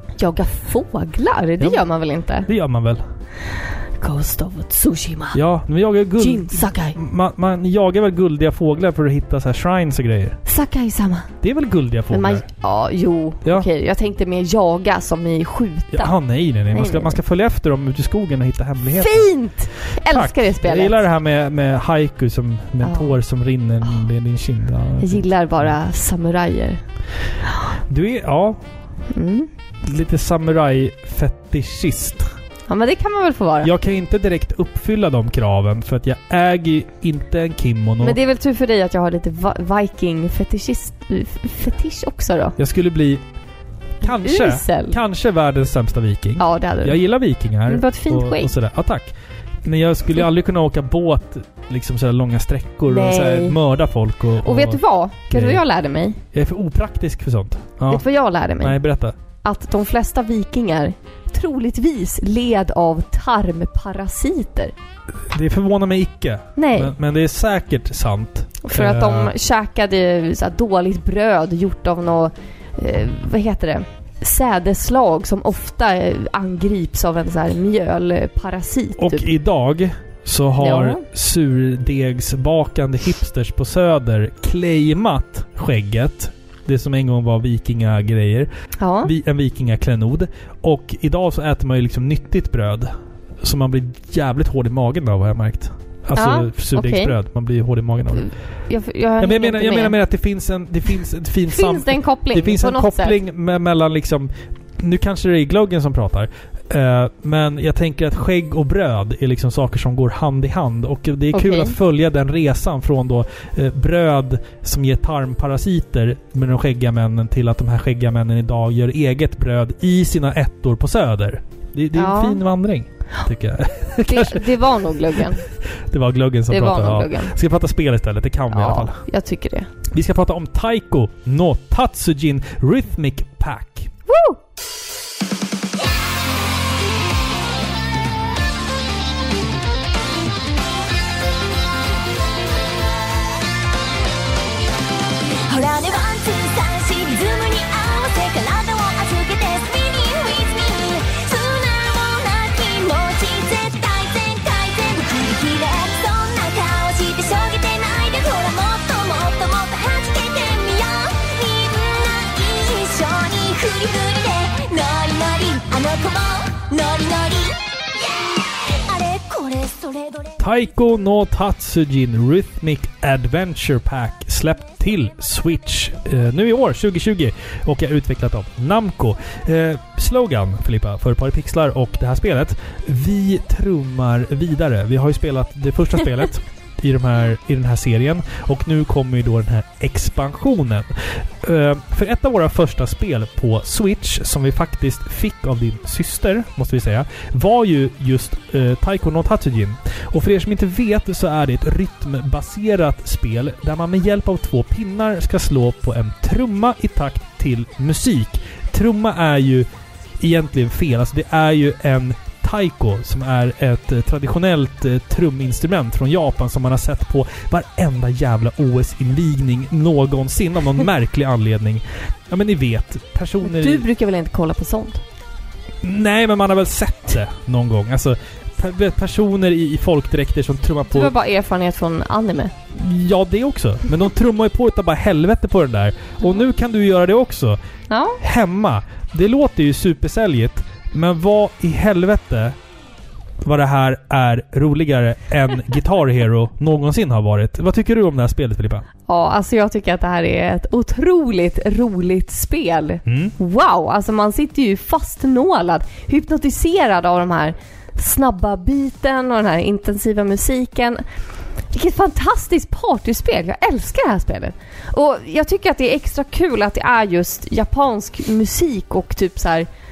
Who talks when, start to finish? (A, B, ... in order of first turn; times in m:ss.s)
0:00.2-0:02.5 A
0:02.4-0:03.0 B
0:04.0-0:05.4 A
0:05.3-0:10.4 B
0:06.2-0:07.0 A
0:10.4-0:11.3 A
0:11.4-0:12.5 B
0:12.1-0:16.1 A
0:15.9-0:19.3 B
0:16.7-0:17.2 A
0:18.9-0:21.0 A
0:19.8-0:25.3 B
0:22.8-0:23.2 A
0:25.0-0:26.8 A
0:27.9-0:28.6 B
0:29.1-0:29.5 A
0:29.8-0:32.3 B
0:32.7-0:33.7 A
0:33.6-0:38.2 B
0:38.0-0:42.6 A
0:42.6-0:43.2 B
0:44.0-0:49.1 B
0:44.0-0:45.0 A
0:46.4-0:47.0 A
0:47.6-0:48.5 A
0:49.6-0:54.8 B
0:52.9-0:53.6 A
0:54.4-0:56.2 A
0:55.3-0:55.6 B
0:56.3-0:58.0 B
0:57.9-0:58.8 A
0:58.6-0:59.2 B
0:59.4-1:04.7 A
1:05.3-1:09.3 B
1:06.6-1:06.9 A
1:08.6-1:19.3 A
1:19.0-1:28.5 B
1:20.6-1:21.0 A
1:28.8-1:29.1 A
1:29.0-1:32.9 B
1:33.4-1:38.3 B
1:36.2-1:37.1 A
1:38.1-1:40.0 A
1:39.2-2:04.6 B
1:41.5-1:43.2 A
1:51.3-1:51.7 A
2:01.9-2:02.4 A
2:04.0-2:05.4 A
2:05.9-2:09.0 B
2:06.5-2:07.3 A
2:08.5-2:09.7 A
2:09.9-2:13.9 B
2:14.1-2:14.4 A
2:25.5-2:50.4 C
2:50.4-3:29.7 B
3:30.2-3:43.9 B
3:43.4-3:45.0 A
3:45.8-3:51.1 B
3:50.9-3:52.5 A
3:52.7-3:57.6 B
3:57.9-3:58.2 A
3:58.2-4:02.6 B
4:03.4-4:08.9 B
4:09.1-4:21.0 A
4:13.0-4:13.3 B
4:21.7-4:29.7 A